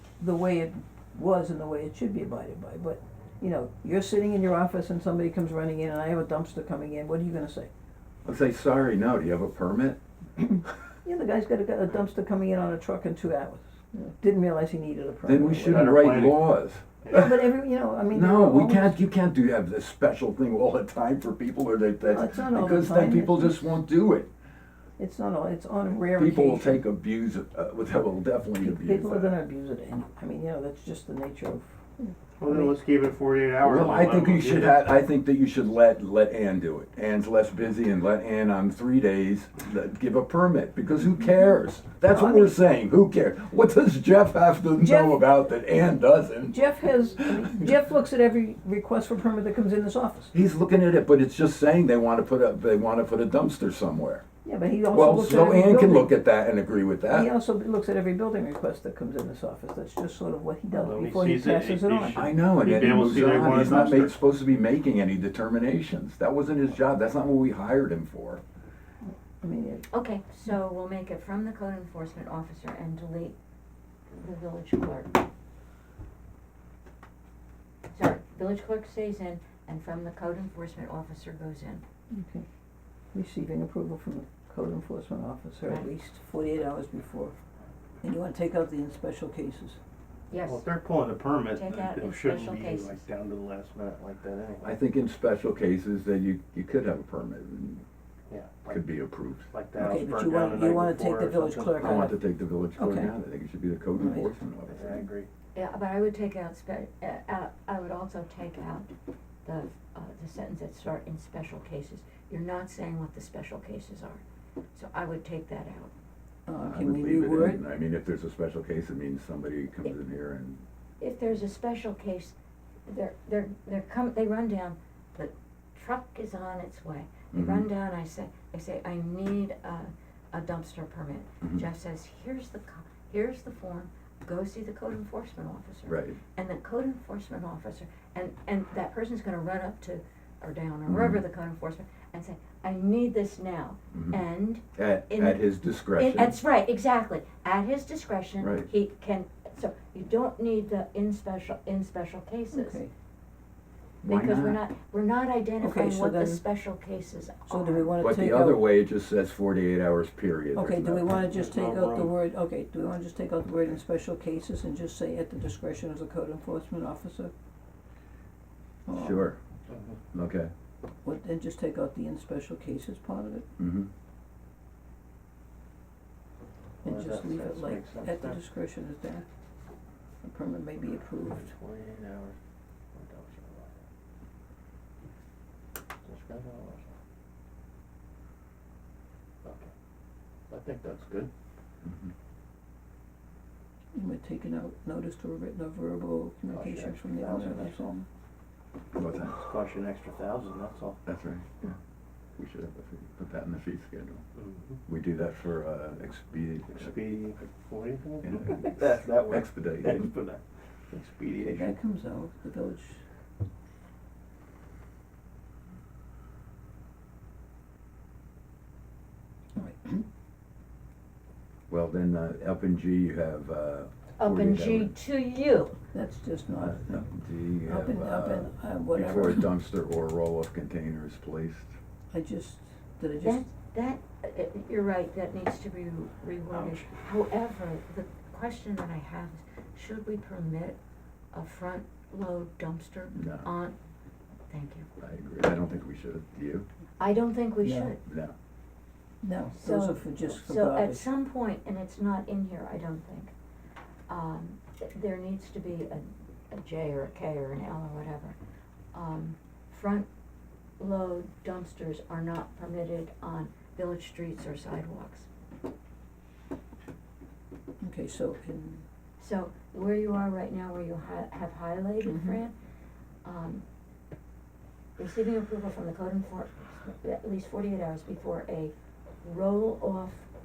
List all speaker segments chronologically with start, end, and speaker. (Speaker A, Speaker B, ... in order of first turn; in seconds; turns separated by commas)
Speaker A: 0.2-7.7, Speaker B: 8.2-10.0, Speaker A: 11.0-15.9, Speaker B: 15.2-17.3, Speaker C: 15.7-16.5, Speaker A: 17.1-19.0, Speaker B: 18.1-24.3, Speaker A: 22.0-23.7, Speaker A: 25.0-26.8, Speaker B: 26.2-29.4, Speaker A: 28.6-32.7, Speaker C: 32.4-34.8, Speaker B: 33.6-46.6, Speaker A: 42.1-42.5, Speaker A: 44.8-45.2, Speaker A: 46.5-50.3, Speaker B: 47.2-47.6, Speaker B: 50.3-54.2, Speaker A: 54.5-56.1, Speaker B: 54.9-57.3, Speaker A: 57.1-62.3, Speaker C: 60.7-64.2, Speaker B: 62.1-68.4, Speaker A: 69.4-69.8, Speaker D: 69.9-73.4, Speaker D: 74.2-75.1, Speaker D: 77.9-81.8, Speaker A: 82.1-82.5, Speaker A: 83.1-87.4, Speaker A: 88.0-89.8, Speaker D: 90.3-90.6, Speaker C: 90.5-94.8, Speaker D: 91.5-93.0, Speaker B: 94.6-97.8, Speaker C: 98.3-98.8, Speaker B: 98.7-99.5, Speaker C: 99.5-102.1, Speaker A: 99.8-102.2, Speaker B: 101.8-105.0, Speaker A: 102.8-103.1, Speaker A: 104.0-104.3, Speaker C: 104.7-105.3, Speaker D: 105.5-108.9, Speaker D: 109.5-114.2, Speaker D: 114.8-115.9, Speaker A: 116.5-117.6, Speaker B: 116.7-120.7, Speaker D: 121.0-122.4, Speaker D: 122.9-152.8, Speaker B: 127.3-127.7, Speaker B: 135.9-136.2, Speaker B: 140.9-141.2, Speaker B: 143.9-144.2, Speaker B: 144.8-146.4, Speaker B: 148.4-148.7, Speaker A: 152.5-152.9, Speaker B: 154.0-154.6, Speaker D: 154.1-157.9, Speaker A: 155.6-156.4, Speaker A: 157.5-158.7, Speaker B: 158.0-161.2, Speaker A: 160.5-167.3, Speaker C: 161.1-162.1, Speaker A: 168.9-169.3, Speaker B: 168.9-169.4, Speaker C: 169.7-170.0, Speaker B: 170.1-170.5, Speaker A: 171.0-173.5, Speaker B: 173.6-173.9, Speaker C: 176.8-178.4, Speaker A: 176.8-179.3, Speaker A: 180.2-181.5, Speaker C: 181.2-182.4, Speaker C: 182.9-183.8, Speaker C: 186.0-187.0, Speaker C: 189.4-189.7, Speaker C: 190.5-191.3, Speaker B: 191.8-192.1, Speaker A: 193.9-198.1, Speaker C: 196.5-197.9, Speaker B: 198.9-199.4, Speaker C: 199.2-201.0, Speaker B: 201.1-201.8, Speaker B: 202.4-204.2, Speaker C: 204.4-204.8, Speaker B: 204.9-207.0, Speaker C: 206.7-211.7, Speaker B: 208.2-210.1, Speaker A: 211.4-213.0, Speaker A: 219.6-220.1, Speaker B: 221.7-224.9, Speaker D: 224.2-225.8, Speaker A: 225.9-227.0, Speaker B: 226.6-231.7, Speaker A: 227.7-229.5, Speaker A: 232.1-233.4, Speaker D: 233.2-240.8, Speaker A: 236.5-236.8, Speaker D: 241.3-243.8, Speaker B: 243.2-243.5, Speaker D: 244.5-244.9, Speaker B: 245.0-246.7, Speaker D: 247.0-248.0, Speaker A: 247.6-247.9, Speaker B: 248.1-248.3, Speaker A: 249.2-251.1, Speaker D: 249.6-253.3, Speaker D: 254.1-258.4, Speaker D: 258.9-260.1, Speaker D: 260.8-265.3, Speaker A: 267.8-268.8, Speaker D: 269.2-272.5, Speaker A: 272.0-272.4, Speaker D: 273.2-273.6, Speaker D: 275.0-280.3